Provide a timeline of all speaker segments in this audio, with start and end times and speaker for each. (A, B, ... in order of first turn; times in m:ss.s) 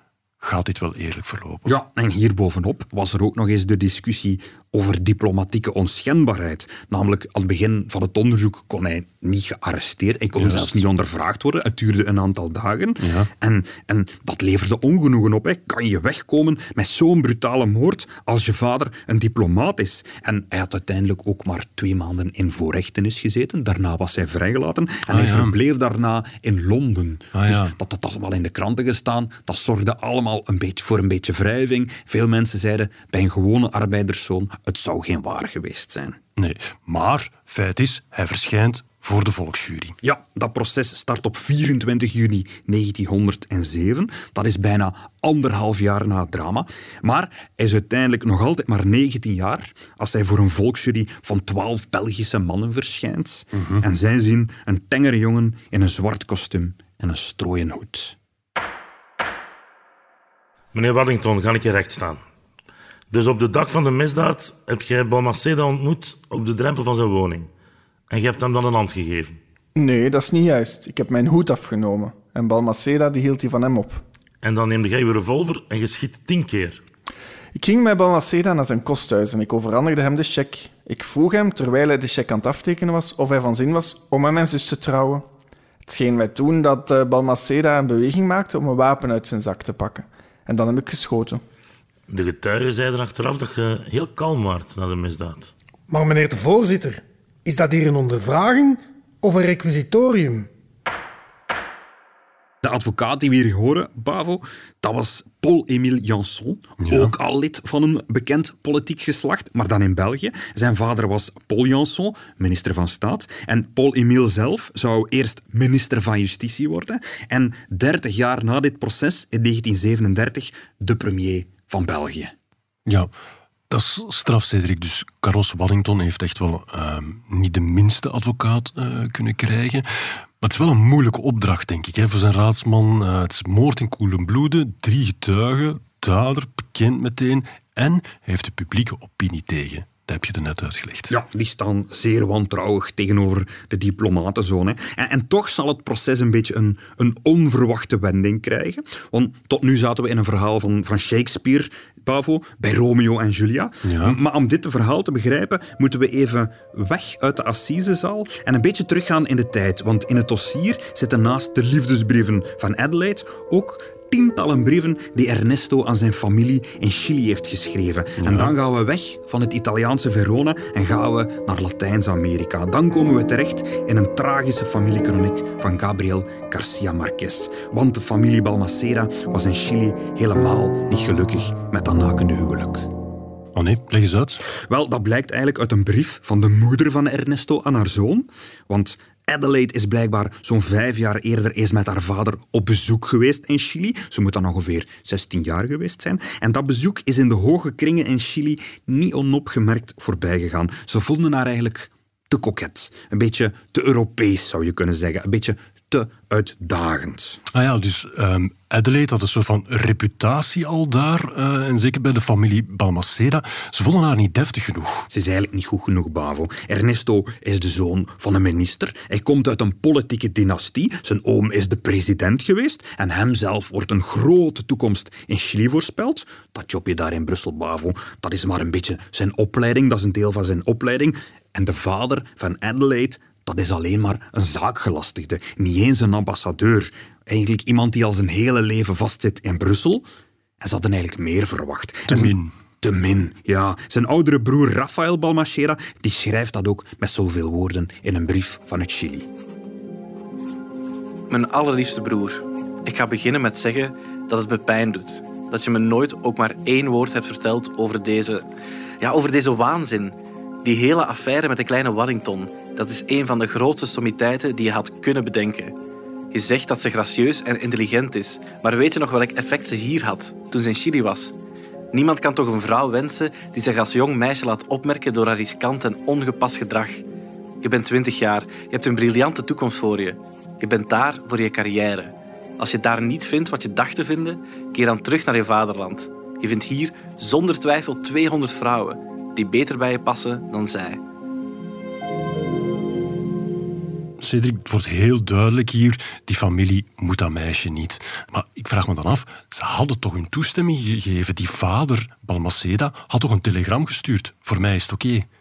0:00.4-0:01.7 A
0:01.6-0:36.2 B
0:10.4-0:10.8 A
0:13.0-0:13.3 A
0:25.1-0:25.6 A
0:27.3-0:27.8 A
0:36.4-0:40.0 A
0:40.0-0:58.2 B
0:53.5-0:53.8 A
1:00.7-1:02.2 C
1:03.1-1:07.5 C
1:08.1-1:09.4 C
1:09.8-1:14.0 D
1:14.4-1:16.8 C
1:17.5-1:25.3 D
1:25.8-1:31.4 D
1:32.1-1:35.5 C
1:35.9-1:40.5 E
1:42.6-2:02.3 B
1:46.8-1:47.1 A
2:03.7-2:21.1 A
2:21.1-3:02.9 B
2:33.8-2:34.2 A
2:48.2-2:48.5 A
3:03.5-3:04.4 A
3:04.5-3:27.4 B
3:27.5-3:35.1 A
3:35.1-4:00.0 B
4:00.6-4:09.3 B
4:02.1-4:02.5 A
4:11.3-4:18.4 F
4:19.0-4:25.7 F
4:26.3-4:31.3 F
4:31.9-4:37.0 F
4:37.6-4:51.0 F
4:54.2-5:05.3 A